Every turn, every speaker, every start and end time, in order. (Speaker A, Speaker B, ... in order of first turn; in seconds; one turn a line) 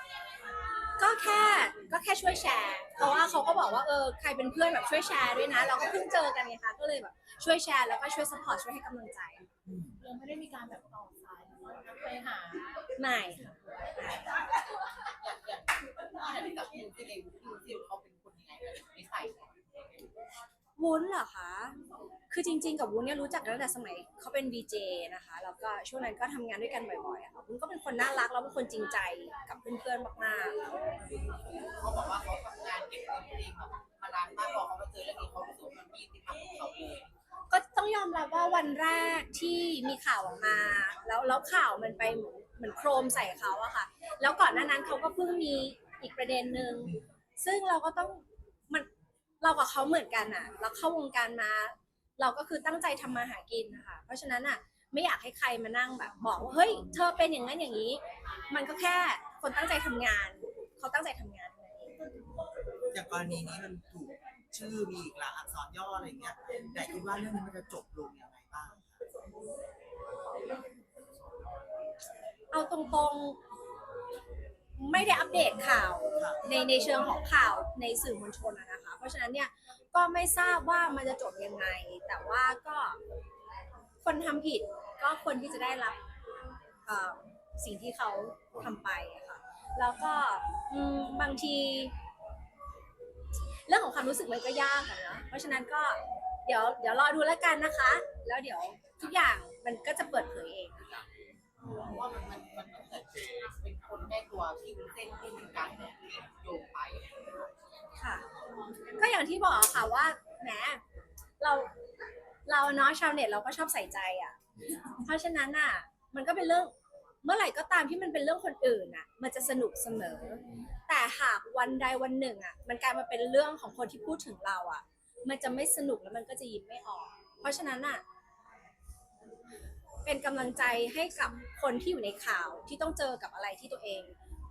Speaker A: 1.0-9.5
Speaker B: 9.7-10.0
Speaker C: 10.0-12.8
Speaker A: 13.0-13.5
Speaker C: 15.1-19.6
Speaker A: 20.8-21.8
Speaker A: 22.3-30.6
Speaker C: 31.8-37.1
Speaker A: 37.5-48.9
Speaker A: 49.4-62.0
Speaker B: 62.9-68.9
Speaker A: 72.5-73.4
Speaker A: 74.8-83.0
Speaker A: 84.0-86.0
Speaker A: 86.9-91.9
Speaker A: 93.7-101.0
Speaker C: 101.7-107.5
Speaker A: 108.0-108.2
Speaker A: 109.0-110.8
Speaker A: 111.4-111.7
Speaker A: 112.5-128.0
Speaker A: 130.1-134.1